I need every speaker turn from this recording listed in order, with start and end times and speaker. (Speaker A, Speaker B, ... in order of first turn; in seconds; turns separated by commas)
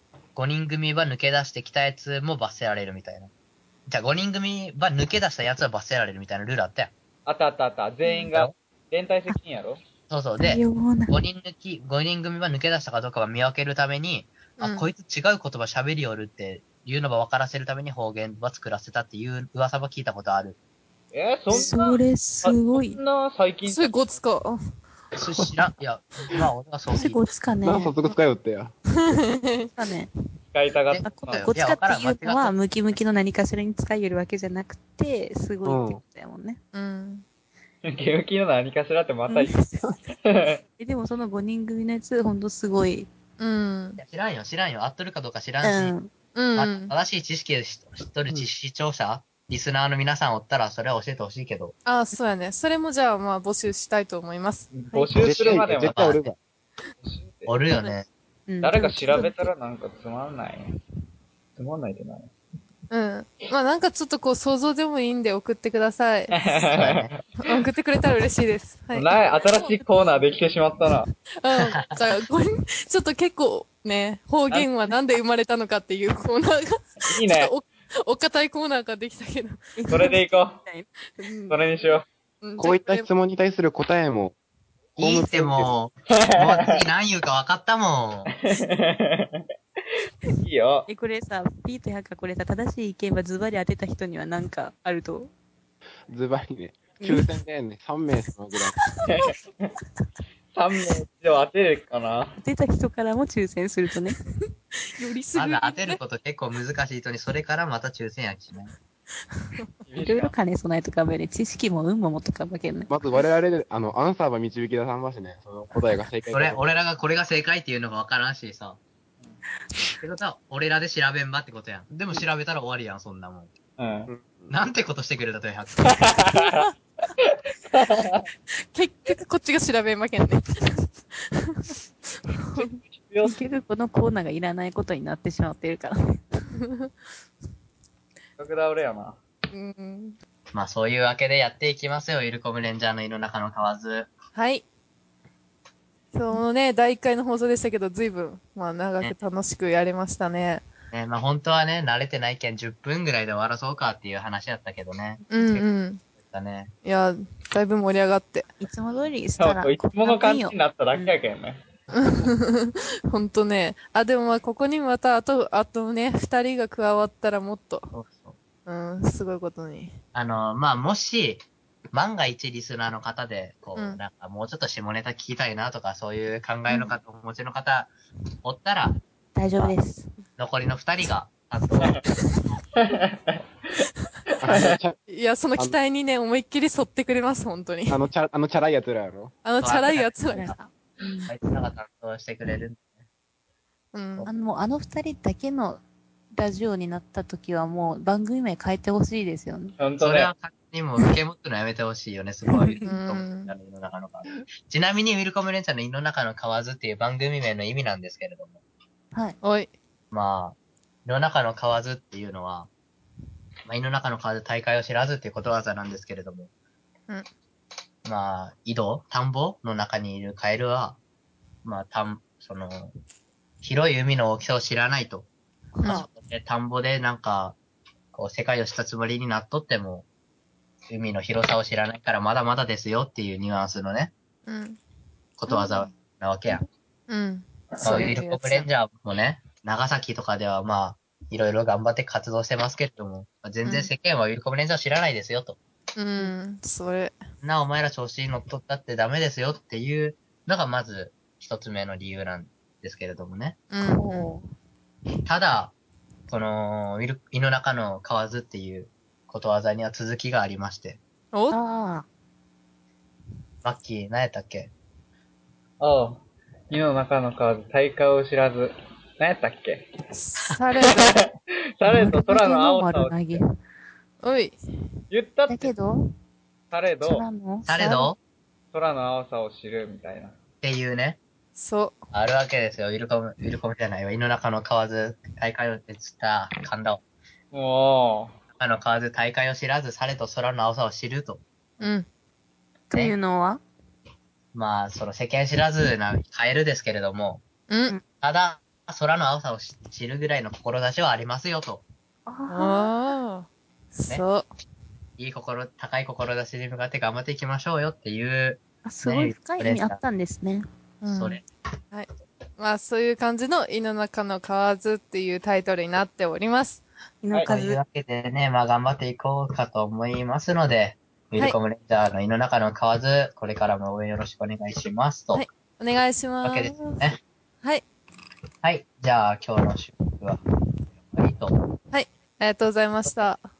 Speaker A: 0.4-3.3, Speaker A: 3.9-6.9, Speaker B: 7.3-9.8, Speaker A: 10.1-20.6, Speaker C: 10.4-11.2, Speaker D: 14.6-14.9, Speaker B: 21.1-24.2, Speaker C: 21.5-23.0, Speaker D: 23.7-24.6, Speaker A: 25.1-27.2, Speaker C: 26.9-27.9, Speaker E: 27.6-28.7, Speaker D: 29.0-29.7, Speaker C: 29.8-30.1, Speaker B: 30.5-31.5, Speaker A: 30.9-32.6, Speaker C: 31.0-36.6, Speaker E: 35.6-36.0, Speaker D: 36.7-37.2, Speaker B: 37.9-39.7, Speaker C: 39.3-39.8, Speaker B: 40.2-40.6, Speaker C: 40.8-43.1, Speaker D: 43.4-44.0, Speaker A: 44.0-45.9, Speaker C: 45.6-46.1, Speaker D: 46.4-46.9, Speaker A: 46.6-51.8, Speaker D: 51.9-54.7, Speaker B: 54.7-56.1, Speaker E: 55.2-56.4, Speaker A: 55.3-56.3, Speaker B: 57.0-57.6, Speaker A: 57.5-58.1, Speaker C: 57.7-59.5, Speaker B: 58.6-60.8, Speaker B: 61.6-62.3, Speaker D: 62.9-66.4, Speaker B: 66.3-67.6, Speaker A: 66.8-67.2, Speaker D: 67.4-69.1, Speaker B: 68.9-71.1, Speaker C: 69.5-69.8, Speaker D: 71.4-80.1, Speaker A: 71.7-72.0, Speaker B: 77.0-77.5, Speaker C: 79.8-81.3, Speaker B: 79.9-80.6, Speaker D: 81.2-81.6, Speaker B: 81.5-82.1, Speaker D: 82.4-83.1, Speaker E: 82.6-84.4, Speaker E: 85.0-85.7, Speaker A: 85.0-88.3, Speaker B: 86.1-86.8, Speaker B: 88.3-90.9, Speaker C: 90.9-95.3, Speaker E: 96.1-98.8, Speaker B: 99.1-99.7, Speaker B: 100.5-102.4, Speaker C: 102.4-104.2, Speaker D: 104.8-106.0, Speaker A: 105.3-108.7, Speaker D: 109.4-109.7, Speaker B: 109.9-110.3, Speaker C: 110.0-112.9, Speaker E: 112.9-116.6, Speaker A: 116.3-118.8, Speaker A: 120.0-123.5, Speaker B: 123.8-124.1, Speaker E: 124.1-124.5, Speaker A: 124.5-126.0, Speaker B: 125.8-126.7, Speaker B: 127.2-128.2, Speaker D: 128.6-131.7, Speaker D: 132.3-132.7, Speaker B: 132.6-133.4, Speaker C: 133.2-136.4, Speaker D: 136.6-136.9, Speaker B: 138.4-139.2, Speaker D: 139.5-140.2, Speaker A: 140.5-144.1, Speaker D: 144.3-144.7, Speaker D: 146.1-150.6, Speaker A: 150.9-155.6, Speaker D: 155.3-156.0, Speaker A: 156.2-156.7, Speaker D: 156.8-158.5, Speaker C: 158.6-160.6, Speaker B: 159.4-161.6, Speaker D: 161.9-167.9, Speaker A: 167.9-168.4, Speaker D: 168.7-170.0, Speaker A: 170.1-179.0, Speaker C: 176.7-176.9, Speaker C: 179.3-180.1, Speaker A: 180.4-182.1, Speaker B: 182.8-184.8, Speaker E: 184.4-185.0, Speaker D: 185.1-188.0, Speaker E: 187.9-189.3, Speaker D: 189.4-190.5, Speaker A: 189.6-190.5, Speaker C: 190.3-191.3, Speaker A: 191.3-192.9, Speaker D: 193.9-194.3, Speaker C: 194.3-195.8, Speaker C: 196.3-199.8, Speaker B: 199.8-200.3, Speaker A: 200.0-208.6, Speaker D: 202.8-203.5, Speaker D: 209.4-209.7, Speaker A: 210.1-212.7, Speaker A: 213.7-216.5, Speaker A: 218.1-221.0, Speaker A: 221.6-222.9, Speaker A: 223.6-225.3, Speaker C: 225.8-226.1, Speaker A: 225.9-227.6, Speaker A: 228.1-230.1, Speaker A: 230.9-234.1, Speaker D: 234.5-234.8, Speaker A: 235.4-236.6, Speaker D: 235.7-235.9, Speaker D: 237.1-238.7, Speaker B: 237.7-238.0, Speaker A: 237.8-245.6, Speaker D: 243.6-243.9, Speaker D: 246.0-247.2, Speaker A: 247.4-253.6, Speaker D: 253.7-254.3, Speaker C: 253.8-254.5, Speaker A: 255.2-255.8, Speaker A: 256.3-261.0, Speaker D: 261.3-261.6, Speaker C: 261.5-262.1, Speaker A: 263.6-264.7, Speaker B: 265.8-269.9, Speaker D: 270.1-271.2, Speaker B: 270.8-273.4, Speaker C: 271.9-273.5, Speaker D: 274.2-274.6, Speaker B: 275.1-275.7, Speaker C: 275.5-276.1, Speaker B: 276.7-277.3, Speaker C: 277.0-277.7, Speaker A: 277.7-278.2, Speaker D: 277.7-278.1, Speaker B: 278.7-280.4, Speaker A: 280.6-281.2, Speaker D: 281.6-282.1, Speaker A: 282.1-287.0, Speaker B: 287.5-288.4, Speaker A: 288.6-291.4, Speaker D: 291.8-292.1, Speaker C: 292.9-293.6, Speaker A: 294.5-297.4, Speaker D: 297.7-298.0, Speaker A: 298.1-301.8, Speaker C: 302.3-302.9, Speaker D: 302.5-304.5, Speaker A: 305.2-310.0, Speaker C: 308.9-310.7, Speaker D: 311.0-316.8, Speaker A: 311.1-311.4, Speaker C: 317.2-317.8, Speaker A: 317.5-325.4, Speaker D: 325.3-327.0, Speaker A: 326.4-327.2, Speaker A: 328.6-330.4, Speaker A: 331.1-331.5, Speaker D: 331.9-333.5